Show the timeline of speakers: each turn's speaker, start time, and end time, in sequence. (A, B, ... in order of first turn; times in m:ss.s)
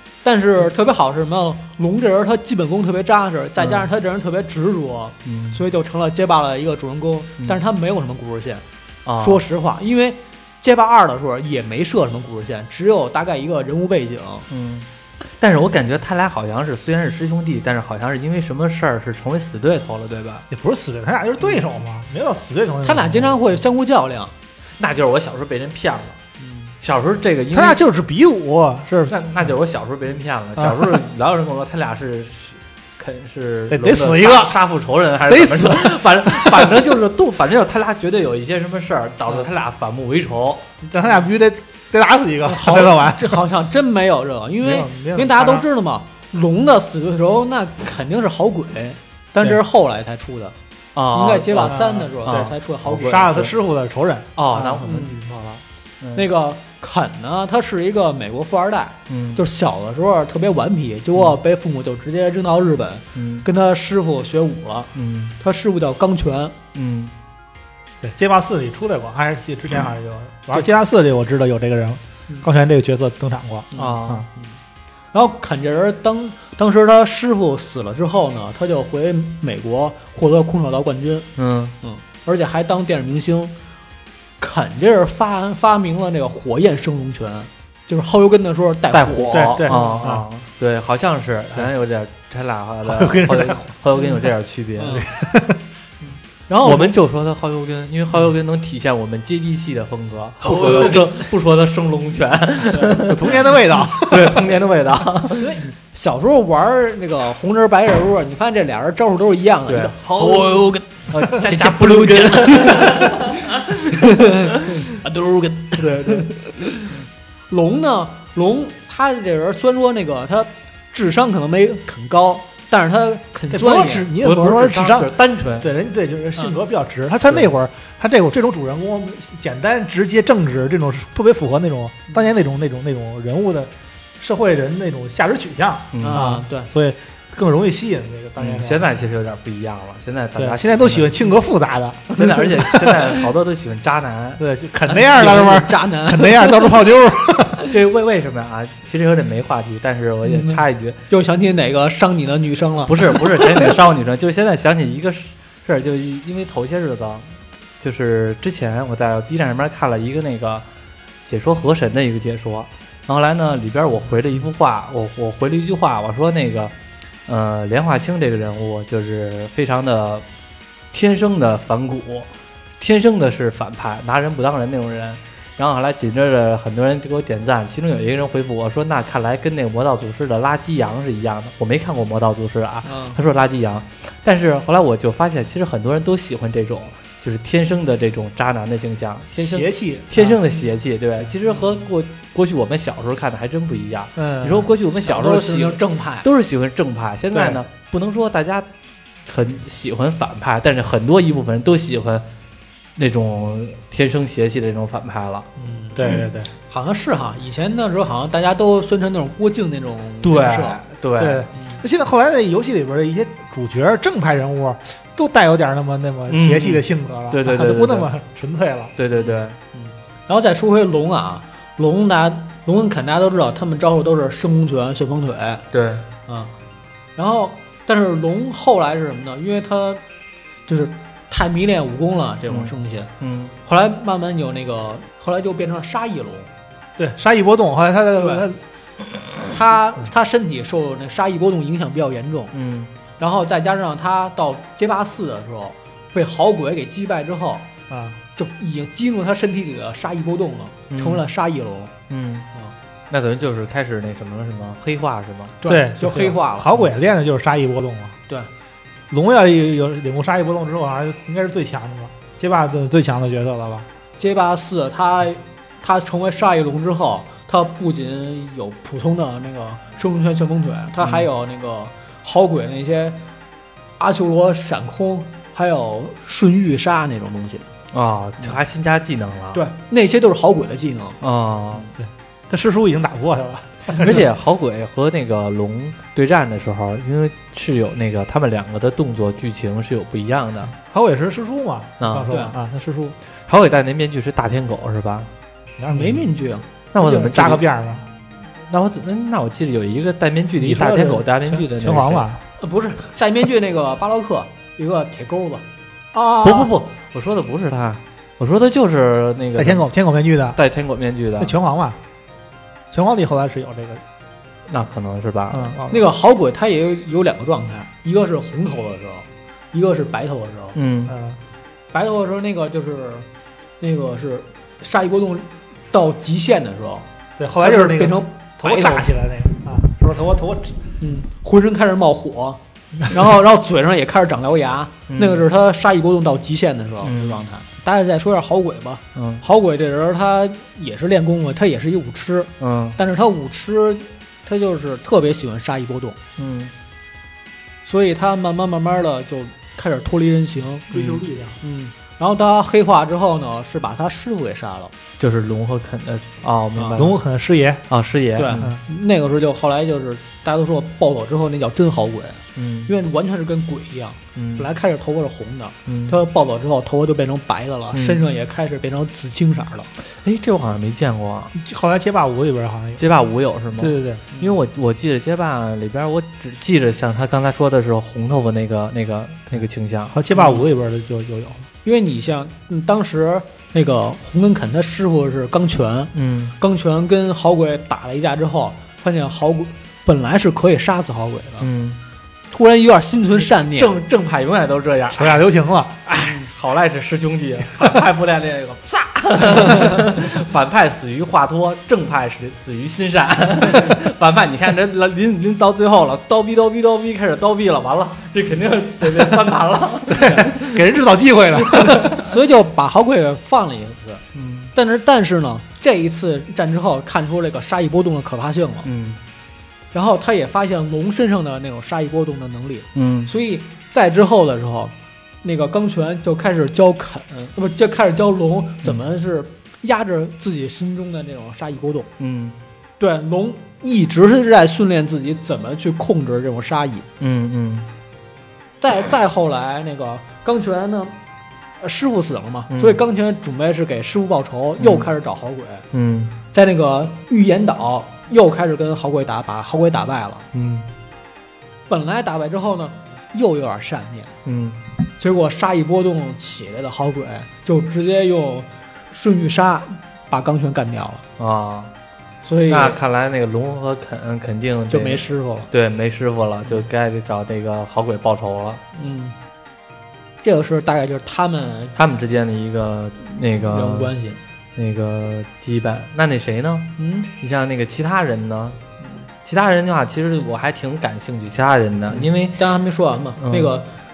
0:00.2-0:08.6 A
0:03.6-0:03.9 B
0:05.2-0:05.6 B
0:09.0-0:09.4 B
0:09.2-0:14.5 A
0:14.5-0:20.4 B
0:20.5-0:23.4 C
0:22.8-0:24.3 A
0:24.8-0:26.2 B
0:26.4-0:26.7 A
0:26.8-0:27.8 B
0:27.5-0:29.2 C
0:29.1-0:40.7 B
0:30.6-0:31.0 C
0:33.7-0:34.6 C
0:35.2-0:36.9 C
0:40.9-0:43.4 C
0:42.4-0:50.5 A
0:44.6-0:45.6 C
0:50.9-0:53.5 B
0:51.1-0:53.4 A
0:51.7-0:54.8 C
0:54.4-0:56.3 B
0:54.6-0:55.1 A
0:56.1-1:06.5 A
0:59.1-0:59.4 B
1:03.1-1:03.5 B
1:04.9-1:05.4 B
1:06.7-1:07.1 B
1:08.0-1:14.2 C
1:13.7-1:14.5 A
1:13.8-1:14.3 B
1:15.1-1:21.3 A
1:21.4-1:21.8 B
1:21.8-1:23.5 A
1:24.4-1:30.1 A
1:28.9-1:35.1 B
1:29.3-1:30.2 C
1:32.8-1:33.6 C
1:34.8-1:35.1 A
1:35.0-1:35.6 C
1:36.5-1:37.0 A
1:36.6-1:45.6 B
1:40.4-1:41.0 A
1:42.7-1:43.0 A
1:43.0-1:44.5 C
1:45.4-1:56.9 A
1:49.7-1:54.9 B
1:55.8-1:56.3 C
1:57.5-2:04.1 A
2:03.5-2:18.9 C
2:04.2-2:05.7 B
2:15.9-2:16.3 B
2:16.0-2:16.7 A
2:18.4-2:21.2 B
2:20.4-2:23.3 C
2:22.1-2:24.4 B
2:24.4-2:27.7 C
2:24.9-2:26.7 A
2:27.7-2:31.0 B
2:30.2-2:33.7 A
2:32.8-2:40.6 B
2:41.2-2:46.7 B
2:47.3-2:50.2 B
2:50.9-3:18.7 B
3:02.8-3:03.2 A
3:09.4-3:10.4 C
3:14.2-3:14.7 C
3:15.0-3:16.3 A
3:17.3-3:17.6 C
3:19.2-3:22.2 B
3:23.0-3:25.5 B
3:25.6-3:26.2 A
3:25.9-3:26.5 C
3:26.7-3:30.8 A
3:30.2-3:31.5 B
3:31.2-3:38.9 C
3:31.6-3:31.8 A
3:36.3-3:38.1 B
3:39.0-3:39.6 B
3:39.2-3:45.6 A
3:45.7-3:46.1 B
3:47.2-3:50.0 A
3:50.7-3:53.1 A
3:52.5-3:53.6 B
3:53.6-3:56.5 A
3:57.0-3:58.6 C
3:58.2-3:58.5 A
3:59.4-4:02.5 A
4:02.5-4:02.9 B
4:03.2-4:07.7 A
4:07.9-4:08.2 C
4:08.4-4:11.9 A
4:10.9-4:11.2 B
4:12.1-4:12.5 B
4:13.1-4:15.6 B
4:15.6-4:16.7 A
4:15.6-4:18.2 C
4:19.1-4:23.8 C
4:24.2-4:33.2 A
4:31.0-4:31.3 B
4:34.0-4:37.6 A
4:37.9-4:39.6 B
4:39.5-4:41.2 A
4:41.2-4:41.9 B
4:42.0-4:44.2 C
4:43.9-4:50.7 B
4:50.7-4:53.2 C
4:52.0-4:52.3 B
4:52.3-4:52.5 A
4:53.5-4:55.3 B
4:55.8-4:56.2 C
4:55.9-4:56.6 A
4:56.9-4:57.6 B
4:57.0-4:58.0 C
4:58.7-5:02.3 B
5:00.6-5:02.4 C
5:02.6-5:05.6 A
5:06.1-5:06.7 C
5:06.4-5:09.9 B
5:09.6-5:10.6 C
5:10.6-5:11.5 B
5:11.4-5:12.0 C
5:12.9-5:14.0 C
5:14.7-5:16.0 B
5:15.5-5:15.8 C
5:15.9-5:20.8 A
5:20.7-5:21.1 B
5:21.1-5:21.4 C
5:21.9-5:23.2 A
5:23.8-5:27.0 A
5:27.4-5:30.8 C
5:27.6-5:29.1 A
5:31.0-5:46.2 A
5:35.1-5:35.4 B
5:37.0-5:37.4 B
5:39.1-5:39.4 B
5:42.6-5:43.0 B
5:46.4-5:46.7 B
5:47.8-5:54.9 A
5:50.9-5:51.6 C
5:55.2-5:57.2 B
5:56.8-5:57.0 A
5:57.0-5:57.8 C
5:57.9-5:58.7 B
5:58.4-6:09.9 A
5:58.5-5:58.8 C
6:02.6-6:02.9 B
6:04.3-6:04.7 B
6:05.9-6:06.2 B
6:07.9-6:08.2 B
6:10.2-6:11.5 B
6:11.5-6:13.0 C
6:13.0-6:20.6 B
6:13.8-6:14.2 C
6:20.1-6:21.6 C
6:21.8-6:31.7 A
6:26.1-6:26.5 B
6:31.6-6:32.0 B
6:32.5-6:34.0 A
6:33.4-6:35.4 B
6:35.1-6:36.0 C
6:36.0-6:50.9 B
6:36.2-6:36.5 A
6:50.1-6:52.2 C
6:50.2-6:50.4 A
6:51.6-6:52.2 B
6:52.2-6:54.2 A
6:54.3-6:54.7 B
6:54.7-6:58.9 A
6:58.8-6:59.2 B
6:59.9-7:12.1 A
7:02.9-7:03.3 B
7:12.2-7:12.6 B
7:13.0-7:17.0 A
7:17.2-7:17.9 B
7:18.8-7:21.1 A
7:21.8-7:25.8 A
7:22.7-7:23.0 B
7:24.8-7:25.1 B
7:25.9-7:26.4 B
7:26.5-7:30.5 A
7:30.5-7:30.9 B
7:31.9-7:34.3 A
7:34.4-7:34.8 B
7:35.2-7:41.2 A
7:41.4-7:41.9 B
7:42.4-7:43.0 A
7:42.7-7:48.8 B
7:44.9-7:45.7 A
7:49.0-7:49.3 A
7:50.4-7:51.9 A
7:52.0-7:54.1 B
7:53.7-7:54.4 A
7:54.8-7:58.8 B
7:57.0-7:57.3 A
7:59.4-8:02.7 B
8:02.1-8:03.9 A
8:03.4-8:03.7 B